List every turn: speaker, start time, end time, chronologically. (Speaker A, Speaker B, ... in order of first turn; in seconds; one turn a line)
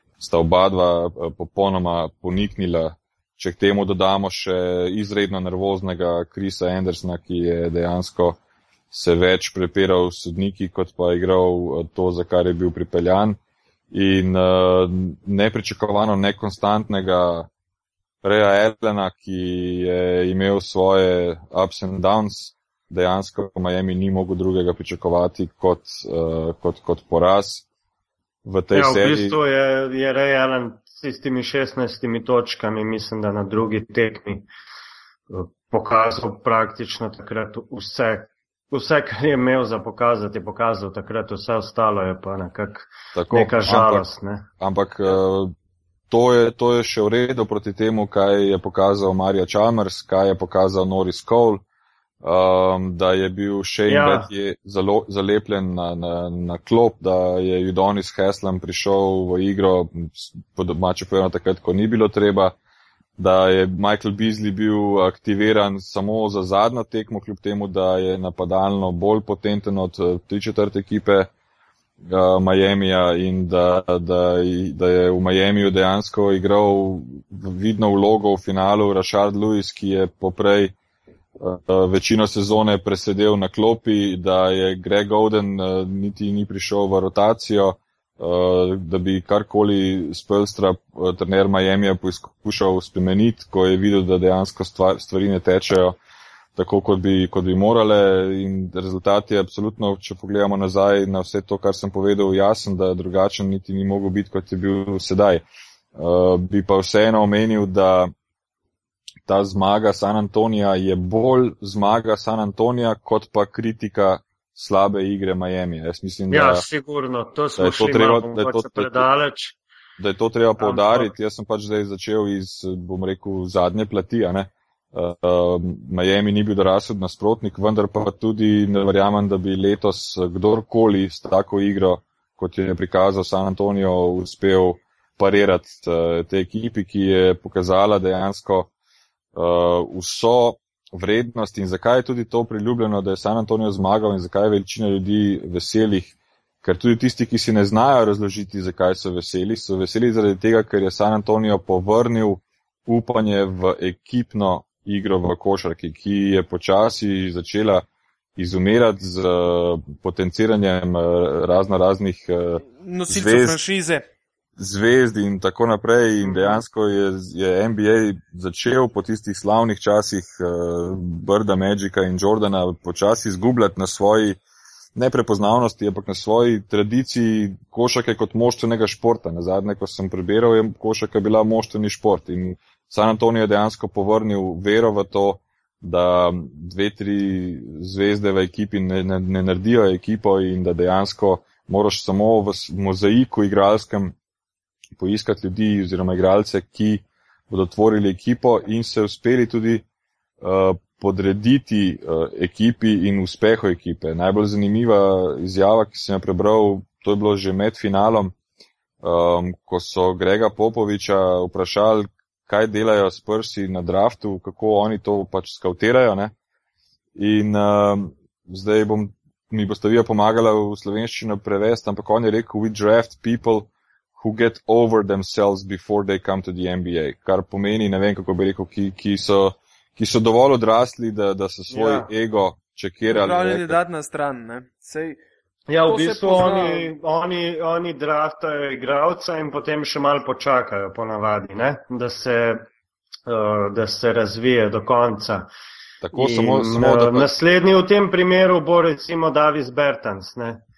Speaker A: 0.2-8.4
Speaker A: 8.9-13.4
Speaker A: 13.9-17.5
Speaker A: 18.2-27.6
Speaker A: 28.4-29.4
Speaker B: 28.7-34.5
Speaker B: 35.3-44.5
Speaker A: 43.1-44.0
Speaker A: 44.6-45.5
Speaker A: 46.1-51.6
Speaker A: 52.2-62.5
Speaker B: 53.9-54.3
Speaker A: 63.2-71.3
Speaker A: 72.0-80.7
Speaker A: 81.4-96.0
Speaker A: 96.5-105.4
Speaker A: 105.9-108.1
Speaker A: 109.2-116.6
Speaker B: 116.3-119.6
Speaker A: 117.6-119.1
Speaker A: 120.0-138.7
Speaker B: 120.6-121.1
Speaker A: 139.3-157.8
Speaker A: 158.4-163.6
Speaker C: 162.8-164.0
Speaker A: 164.6-174.4
Speaker B: 166.2-166.5
Speaker A: 174.9-194.1
Speaker A: 195.0-199.8
Speaker A: 200.4-208.3
Speaker A: 209.0-216.3
Speaker A: 217.2-233.8
Speaker B: 231.7-232.1
Speaker C: 233.1-235.2
Speaker B: 235.7-242.7
Speaker C: 235.8-236.9
Speaker B: 243.3-245.5
Speaker A: 246.0-247.2
Speaker B: 246.2-250.6